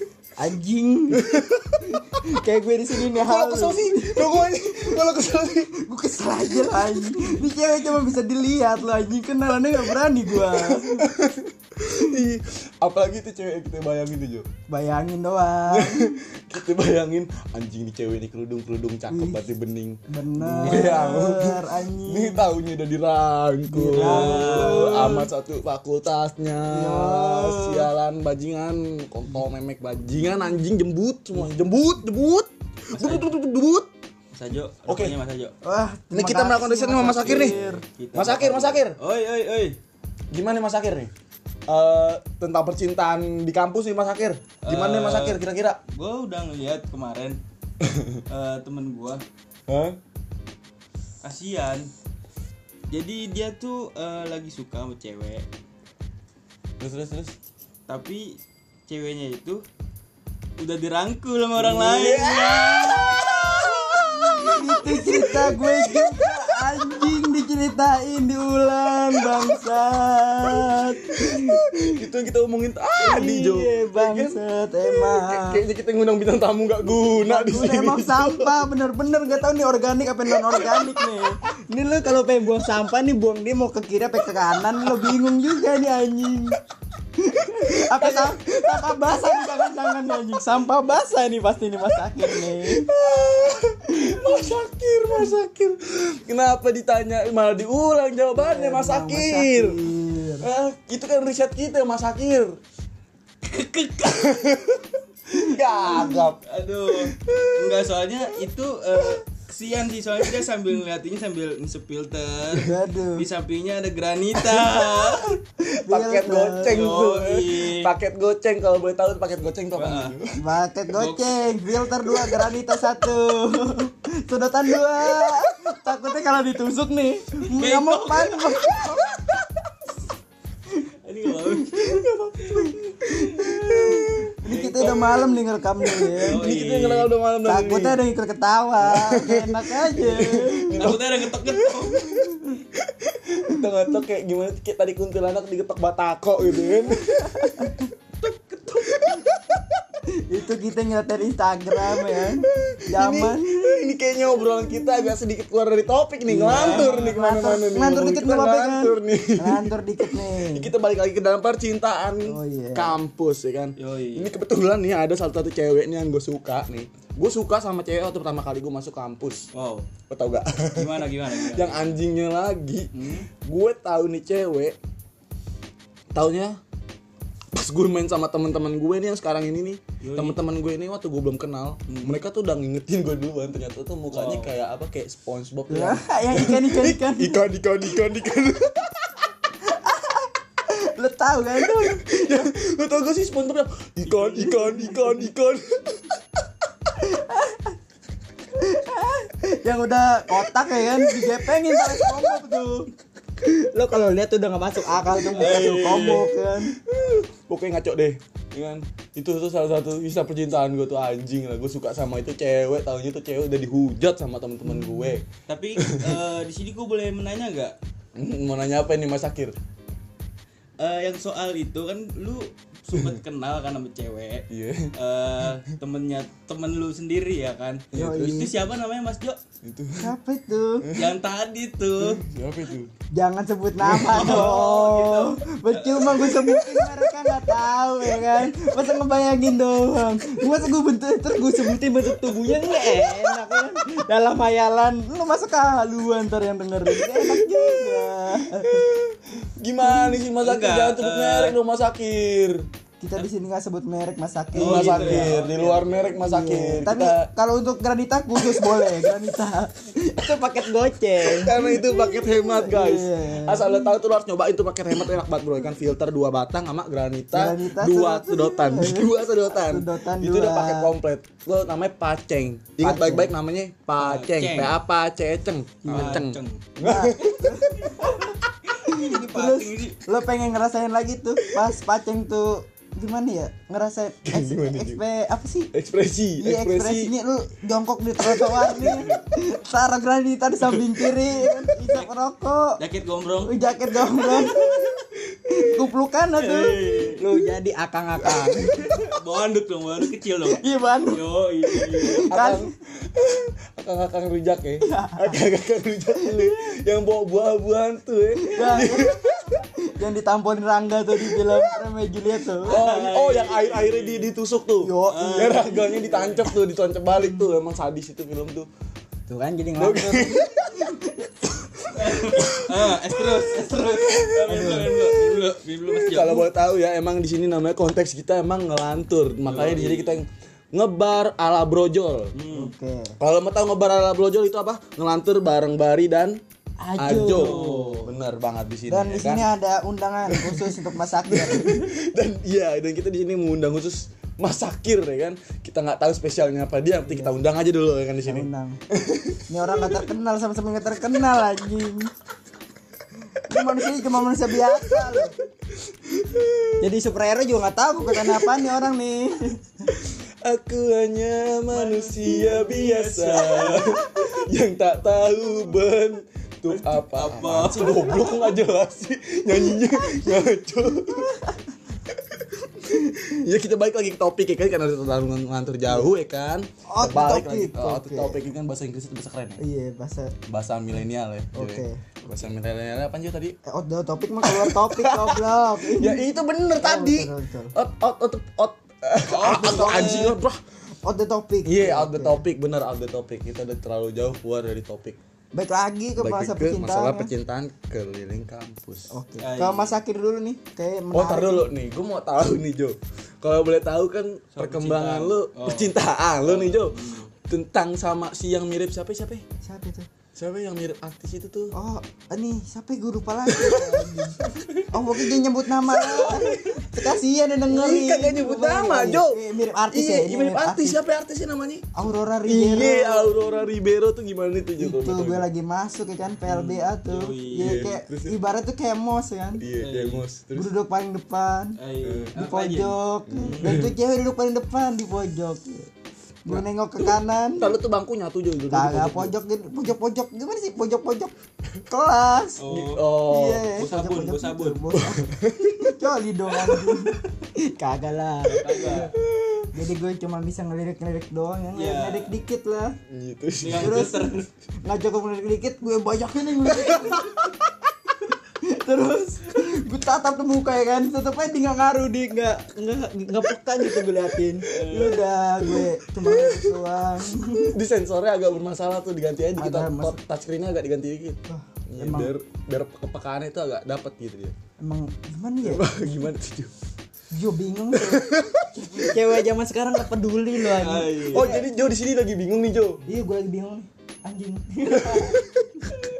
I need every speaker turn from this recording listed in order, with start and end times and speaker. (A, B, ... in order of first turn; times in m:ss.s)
0:00.4-0:11.1 A
0:01.1-0:02.0 B
0:03.1-0:05.7 B
0:06.5-0:07.4 B
0:10.3-0:14.5 B
0:14.7-0:16.2 A
0:15.7-0:33.9 B
0:19.1-0:19.4 A
0:20.1-0:22.5 A
0:23.7-0:25.3 A
0:23.9-0:25.3 C
0:26.7-0:27.9 A
0:32.9-0:33.3 C
0:34.3-0:35.5 C
0:34.9-0:35.2 B
0:35.6-0:37.8 A
0:36.1-0:37.6 B
0:37.0-0:39.8 C
0:38.1-0:39.0 B
0:40.3-0:41.1 B
0:41.7-0:45.8 B
0:44.6-0:47.4 C
0:47.8-0:48.2 B
0:48.3-0:49.2 C
0:49.7-0:50.0 B
0:51.2-0:51.9 C
0:52.9-0:55.5 C
0:56.8-0:57.4 B
0:57.9-0:59.6 C
1:00.6-1:03.5 C
1:01.5-1:07.1 B
1:04.3-1:11.9 A
1:09.2-1:09.5 B
1:11.2-1:18.7 B
1:13.0-1:15.6 A
1:16.9-1:26.6 A
1:20.3-1:21.3 B
1:27.2-1:32.9 A
1:27.7-1:30.2 B
1:32.2-1:39.8 B
1:34.0-1:34.5 A
1:38.3-1:40.5 A
1:40.4-1:42.6 B
1:43.4-1:44.4 C
1:44.0-1:46.4 B
1:45.6-1:46.2 A
1:45.8-1:55.4 C
1:47.1-1:47.8 B
1:52.6-1:53.3 A
1:54.4-2:00.3 B
1:55.6-1:57.0 A
1:56.7-1:57.9 C
1:59.7-2:00.2 C
2:00.4-2:09.4 A
2:00.9-2:01.4 C
2:01.9-2:02.6 B
2:07.5-2:08.8 C
2:11.0-2:15.4 C
2:11.5-2:16.4 A
2:12.1-2:12.8 B
2:13.4-2:14.3 B
2:15.8-2:18.0 B
2:16.2-2:17.1 C
2:17.4-2:20.9 A
2:18.8-2:27.8 B
2:20.7-2:22.1 C
2:22.2-2:22.6 A
2:26.4-2:27.8 A
2:28.2-2:29.0 C
2:28.8-2:29.8 B
2:30.2-2:33.9 A
2:31.9-2:49.5 B
2:34.6-2:35.1 A
2:36.2-2:40.7 A
2:36.4-2:37.2 C
2:42.2-2:43.0 A
2:43.8-2:44.3 C
2:49.5-2:49.9 C
2:50.1-2:54.8 B
2:50.7-2:52.0 C
2:52.9-2:53.3 C
2:56.1-2:56.6 B
2:57.5-3:09.1 B
3:00.0-3:00.4 C
3:01.9-3:02.2 C
3:04.1-3:04.5 C
3:05.7-3:07.5 A
3:09.6-3:12.4 A
3:11.6-3:16.2 B
3:14.0-3:15.3 C
3:17.0-3:17.8 A
3:18.6-3:26.7 A
3:20.6-3:22.3 B
3:25.0-3:25.8 B
3:25.3-3:26.3 C
3:26.6-3:35.2 B
3:34.7-3:35.2 A
3:35.5-3:37.8 C
3:35.8-3:36.1 B
3:38.2-3:39.6 B
3:40.8-3:49.4 C
3:42.9-3:43.2 B
3:44.5-3:44.9 B
3:47.9-3:48.5 B
3:47.9-3:48.6 A
3:49.6-3:50.1 B
3:50.0-3:50.9 A
3:50.8-3:51.2 B
3:50.9-3:52.2 C
3:52.0-3:52.9 B
3:53.1-4:08.8 A
3:53.8-3:54.5 B
3:53.8-3:56.6 C
4:02.3-4:03.4 B
4:06.9-4:12.6 B
4:10.3-4:11.6 C
4:13.0-4:15.3 A
4:14.5-4:16.2 C
4:14.5-4:17.3 B
4:16.2-4:23.9 A
4:18.4-4:19.1 B
4:21.2-4:38.1 B
4:27.3-4:30.9 A
4:32.8-4:33.3 A
4:34.0-4:34.8 C
4:35.8-4:36.2 A
4:35.8-4:36.6 C
4:36.8-4:45.7 A
4:38.9-4:40.0 C
4:44.2-4:45.0 B
4:45.7-4:47.1 B
4:46.4-4:52.8 A
4:48.2-4:49.2 B
4:52.8-4:53.6 C
4:53.4-4:55.0 A
4:54.5-4:55.5 B
4:55.6-4:59.0 A
4:56.4-4:57.2 C
4:58.3-4:59.0 B
4:59.1-5:02.2 C
5:00.4-5:01.2 A
5:01.7-5:02.7 A
5:02.1-5:09.6 B
5:04.8-5:05.4 A
5:06.2-5:06.5 A
5:08.4-5:12.8 A
5:11.2-5:11.8 B
5:12.6-5:14.3 C
5:12.6-5:18.7 B
5:14.8-5:15.8 A
5:15.1-5:16.6 C
5:17.1-5:17.6 A
5:19.3-5:21.3 A
5:19.8-5:20.9 B
5:21.8-5:32.3 B
5:21.9-5:26.5 C
5:24.4-5:24.9 A
5:29.4-5:30.2 C
5:32.3-5:32.7 C
5:32.5-5:33.2 A
5:33.2-5:36.4 B
5:36.8-5:38.0 A
5:37.0-5:39.5 B
5:37.1-5:38.1 C
5:38.9-5:41.9 A
5:40.3-5:50.0 B
5:47.0-5:47.4 A
5:48.2-5:48.8 A
5:49.5-5:52.1 A
5:53.4-5:55.3 A
5:54.7-5:55.3 B
5:55.8-5:56.8 B
5:56.8-5:59.7 A
5:58.1-5:58.7 B
5:59.9-6:11.4 B
6:01.7-6:04.1 C
6:06.7-6:08.4 C
6:11.2-6:11.6 A
6:12.1-6:19.6 B
6:15.9-6:16.1 A
6:16.9-6:18.4 A
6:19.6-6:20.3 A
6:20.5-6:23.6 B
6:21.5-6:22.5 A
6:23.6-6:26.2 A
6:24.4-6:30.6 B
6:26.8-6:27.7 A
6:29.2-6:30.4 C
6:29.4-6:30.2 A
6:31.0-6:32.4 A
6:31.6-6:35.2 B
6:35.5-6:37.3 A
6:36.2-6:39.1 B
6:39.1-6:41.7 A
6:39.4-6:40.0 C
6:41.1-6:49.4 B
6:44.5-6:47.3 C
6:49.6-6:50.1 A
6:50.4-6:51.7 B
6:51.7-7:01.0 A
6:53.5-7:01.9 B
7:01.9-7:03.4 A
7:02.4-7:05.4 B
7:04.8-7:09.6 A
7:06.4-7:07.8 C
7:07.5-7:08.3 B
7:09.6-7:10.7 B
7:09.8-7:10.2 C
7:10.6-7:11.8 A
7:11.8-7:13.8 C
7:12.0-7:12.4 B
7:12.4-7:15.9 A
7:13.3-7:13.9 B
7:16.4-7:17.7 A
7:16.5-7:19.4 B
7:18.7-7:21.3 A
7:21.9-7:22.6 A
7:22.6-7:23.1 C
7:22.7-7:23.7 B
7:23.2-7:25.3 A
7:23.7-7:24.9 C
7:24.9-7:25.9 B
7:25.8-7:29.1 A
7:26.5-7:27.0 B
7:28.5-7:29.1 C
7:28.8-7:29.7 B
7:29.7-7:33.0 A
7:31.7-7:32.3 C
7:33.1-7:34.0 B
7:33.6-7:34.5 C
7:33.7-7:37.6 A
7:36.7-7:37.2 B
7:38.6-7:47.8 A
7:44.7-7:45.2 C
7:45.7-7:46.7 B
7:47.6-7:54.5 B
7:49.6-7:50.2 A
7:51.5-7:52.3 A
7:54.8-7:55.8 A
7:55.6-7:56.7 B
7:57.3-8:01.6 A
7:58.0-7:59.0 B
8:00.6-8:01.6 C
8:01.3-8:03.0 B
8:03.0-8:05.5 A
8:05.0-8:05.9 B